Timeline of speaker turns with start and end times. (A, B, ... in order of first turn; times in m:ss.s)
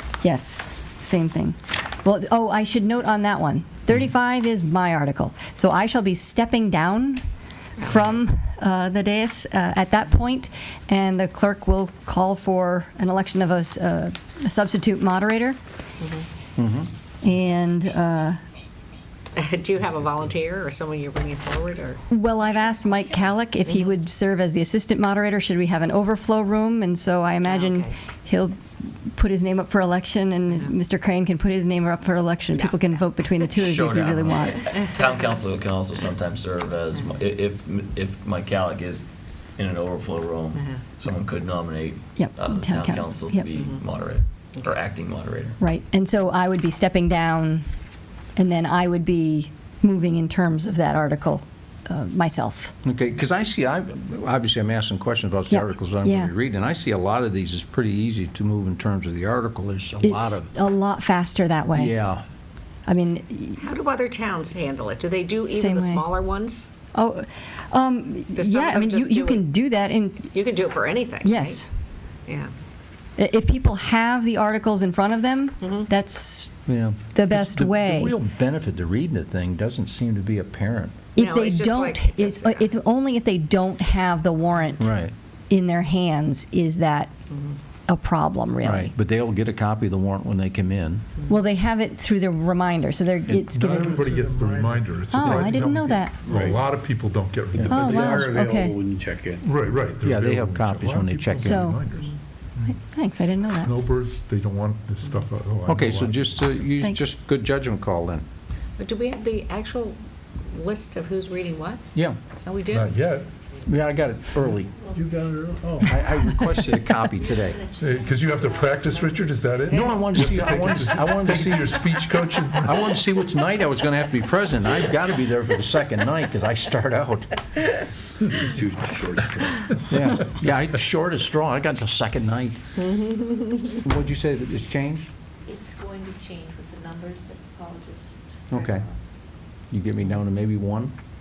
0:00.2-0:07.2 A
0:07.8-0:15.6 A
0:16.6-0:16.9 B
0:17.2-0:18.4 A
0:19.4-0:22.0 C
0:22.1-0:34.7 A
0:27.5-0:28.0 C
0:33.4-0:45.6 D
0:40.5-0:40.8 C
0:42.2-0:43.5 A
0:43.5-0:43.8 C
0:45.6-0:47.6 A
0:48.4-0:52.7 A
0:52.8-1:00.5 B
0:55.5-0:56.3 A
1:00.0-1:02.0 A
1:01.7-1:02.2 B
1:02.9-1:03.6 A
1:03.6-1:06.7 C
1:05.5-1:06.0 A
1:06.9-1:10.3 A
1:08.3-1:09.4 C
1:10.3-1:11.6 C
1:11.2-1:11.7 A
1:12.3-1:12.5 C
1:13.2-1:16.5 A
1:15.6-1:15.9 C
1:16.7-1:21.0 B
1:17.1-1:18.2 A
1:21.2-1:24.9 A
1:21.2-1:22.7 C
1:24.8-1:25.1 B
1:25.5-1:27.1 A
1:27.9-1:28.9 A
1:28.6-1:31.0 B
1:31.3-1:34.0 A
1:33.3-1:38.2 E
1:33.8-1:35.7 F
1:35.1-1:36.2 A
1:36.2-1:36.7 F
1:37.5-1:37.9 B
1:37.6-1:39.4 F
1:37.7-1:38.8 A
1:39.4-1:42.7 E
1:40.0-1:41.7 B
1:41.4-1:41.8 A
1:42.6-1:43.7 A
1:43.5-1:46.4 E
1:45.6-1:48.2 B
1:46.8-1:47.1 A
1:48.8-1:51.8 C
1:52.4-1:52.9 C
1:52.7-1:53.3 E
1:53.6-1:54.8 B
1:54.7-1:55.1 G
1:54.9-1:56.4 E
1:55.8-1:56.1 G
1:55.8-1:57.6 B
1:57.4-1:59.4 G
1:57.8-2:02.9 E
1:59.7-2:00.0 C
1:59.7-2:01.8 B
2:02.6-2:07.4 B
2:08.4-2:09.7 F
2:09.9-2:12.6 B
2:12.8-2:13.7 C
2:13.8-2:15.1 B
2:15.4-2:18.8 G
2:18.5-2:18.8 B
2:19.7-2:20.9 B